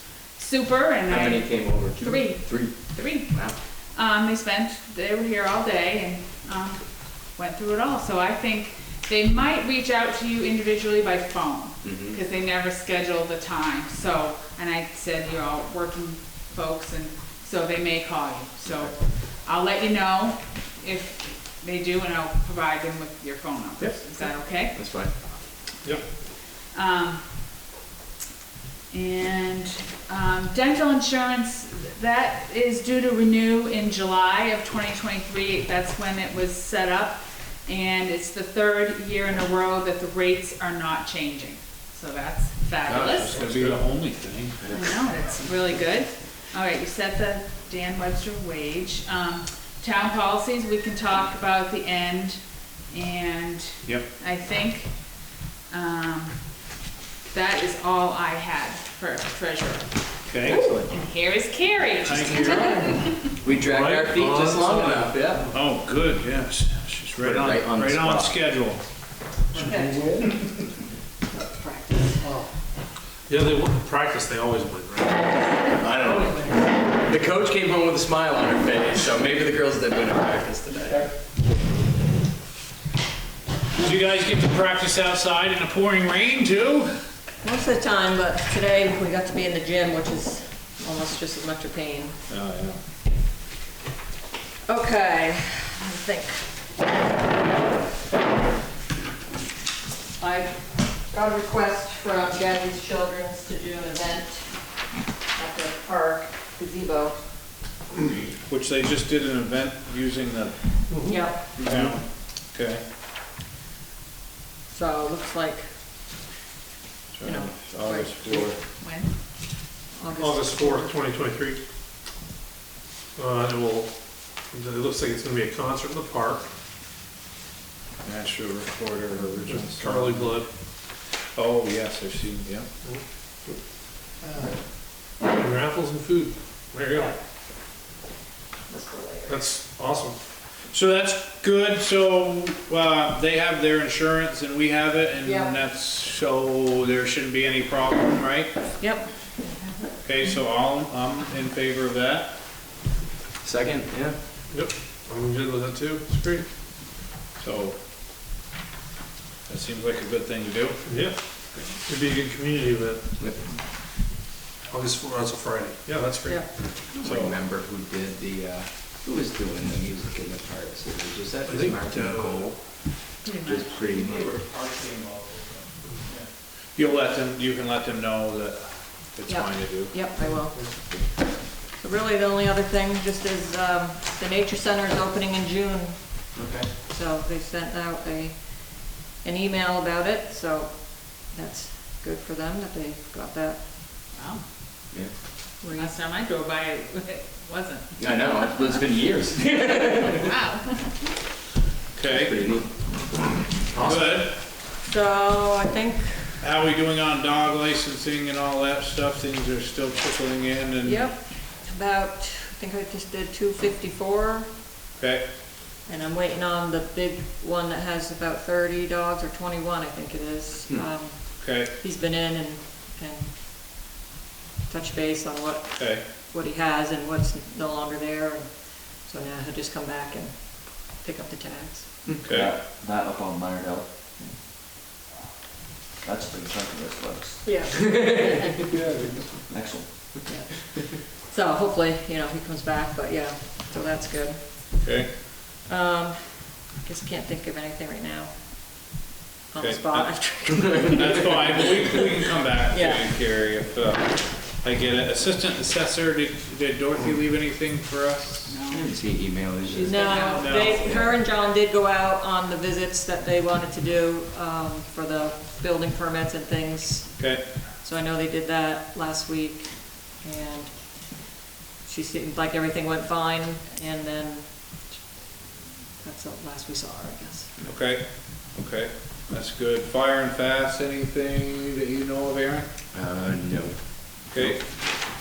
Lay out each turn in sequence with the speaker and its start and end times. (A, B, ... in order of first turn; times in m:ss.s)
0:00.3-0:03.4 A
0:01.1-0:03.6 B
0:03.9-0:24.8 A
0:11.8-0:12.2 B
0:24.7-0:25.1 B
0:26.7-0:27.3 A
0:28.9-0:43.4 A
0:42.9-0:43.6 B
0:43.1-0:44.6 C
0:44.6-0:45.1 B
0:44.7-0:55.0 A
0:53.8-0:54.1 C
0:55.7-0:56.7 A
0:57.3-0:59.9 A
1:00.3-1:00.7 C
1:00.4-1:00.9 B
1:00.8-1:03.2 A
1:02.0-1:02.8 C
1:02.4-1:02.9 D
1:03.3-1:05.4 B
1:03.5-1:05.6 E
1:05.5-1:08.9 C
1:07.2-1:08.4 B
1:09.6-1:10.2 D
1:09.6-1:10.3 E
1:11.3-1:12.3 D
1:12.2-1:12.5 E
1:13.3-1:15.3 E
1:15.7-1:21.1 B
1:16.0-1:16.6 D
1:23.8-1:26.9 C
1:27.4-1:32.2 D
1:32.3-1:32.8 C
1:34.7-1:36.5 D
1:40.2-1:47.3 D
1:48.0-1:52.8 C
1:50.9-1:51.3 E
1:51.1-1:51.6 D
1:51.6-1:52.0 B
1:54.7-1:56.1 D
1:57.1-1:58.6 C
1:57.2-1:58.6 D
1:58.8-1:59.1 A
1:59.9-2:00.9 D
2:00.2-2:01.6 E
2:03.2-2:03.9 E
2:04.5-2:06.4 E
2:08.0-2:10.2 C
2:09.5-2:10.5 E
2:11.3-2:12.7 C
2:15.2-2:17.2 E
2:18.7-2:19.4 D
2:19.3-2:20.2 E
2:20.7-2:28.7 C
2:25.2-2:25.6 D
2:28.8-2:29.8 D
2:30.0-2:32.3 C
2:33.4-2:34.2 B
2:34.5-2:36.5 E
2:37.4-2:37.8 C
2:39.5-2:40.8 C
2:40.8-2:41.2 E
2:41.8-2:43.0 E
2:43.2-2:43.5 B
2:44.7-2:46.5 E
2:46.9-2:54.3 B
2:47.0-2:47.3 C
2:51.5-2:52.4 E
2:53.2-2:53.5 A
2:53.7-3:00.0 C
2:59.3-3:13.6 D
3:00.2-3:00.7 E
3:06.4-3:06.7 B
3:14.1-3:14.4 A
3:15.6-3:15.9 D
3:15.8-3:18.2 A
3:18.0-3:20.2 B
3:20.0-3:20.8 A
3:21.9-3:22.5 C
3:22.1-3:23.3 B
3:23.7-3:24.3 E
3:23.8-3:24.3 C
3:24.7-3:26.4 D
3:26.4-3:31.1 C
3:30.8-3:34.5 D
3:35.0-3:35.3 C
3:35.8-3:43.3 D
3:41.4-3:41.7 C
3:44.7-3:52.2 D
3:45.8-3:46.0 C
3:52.1-3:52.6 C
3:52.3-3:53.8 F
3:56.0-3:57.4 F
3:57.4-3:58.9 D
3:58.7-3:59.4 E
3:59.5-4:00.1 F
4:00.2-4:04.9 D
4:04.8-4:05.2 C
4:05.6-4:08.9 D
4:09.5-4:11.2 D
4:09.6-4:18.6 C
4:12.7-4:13.1 D
4:18.5-4:18.9 A
4:18.7-4:20.2 B
4:19.7-4:20.8 A
4:19.8-4:31.3 D
4:20.3-4:20.9 C
4:20.8-4:21.1 B
4:27.2-4:27.6 C
4:31.8-4:35.1 D
4:36.0-4:37.5 D
4:37.6-4:42.7 C
4:42.9-4:44.5 B
4:44.3-4:44.7 C